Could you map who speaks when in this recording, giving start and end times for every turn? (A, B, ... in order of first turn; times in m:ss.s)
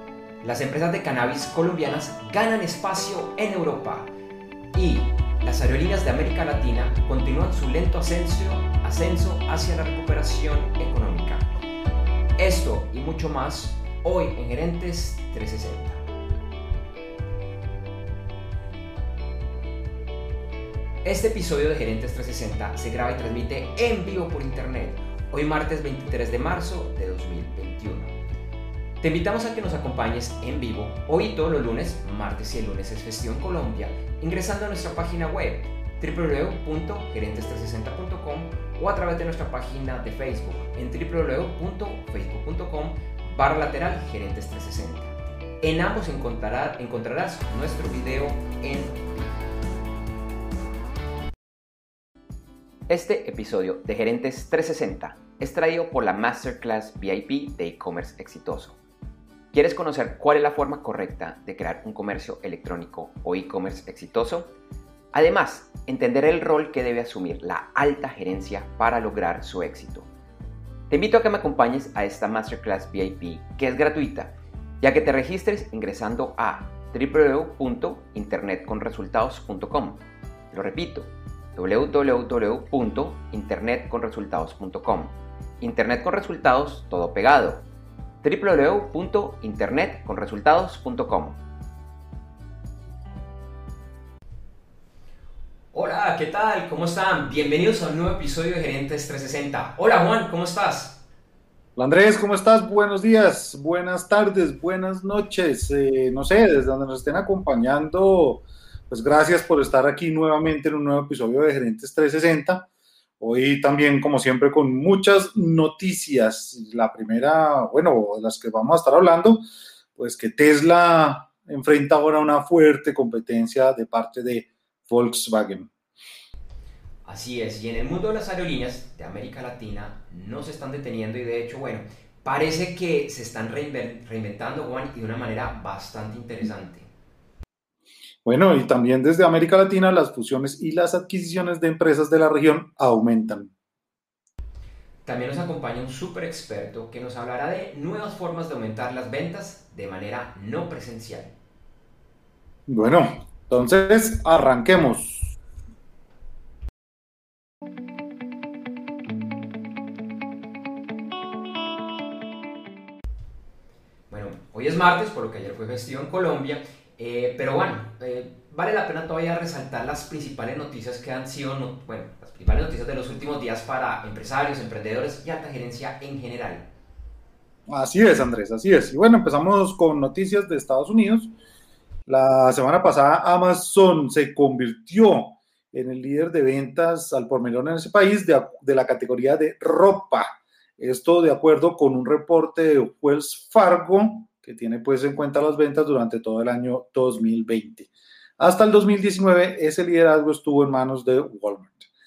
0:00.4-0:04.1 A
0:04.7-0:11.5 A
0:12.4-0:16.0 A
0:21.0-0:28.1 A
0:29.0-0:49.4 A
0:52.9-0:58.8 A
0:59.5-1:04.5 A
1:05.1-1:10.1 A
1:10.9-1:27.6 A
1:28.2-1:31.4 A
1:35.7-1:41.0 A
1:41.8-1:52.7 B
1:53.2-1:59.4 B
2:00.0-2:05.7 B
2:07.0-2:16.9 A
2:18.2-2:23.5 B
2:25.0-2:31.3 A
2:32.7-2:35.3 B
2:44.1-2:56.7 A
2:57.7-3:01.4 B
3:02.1-3:21.9 B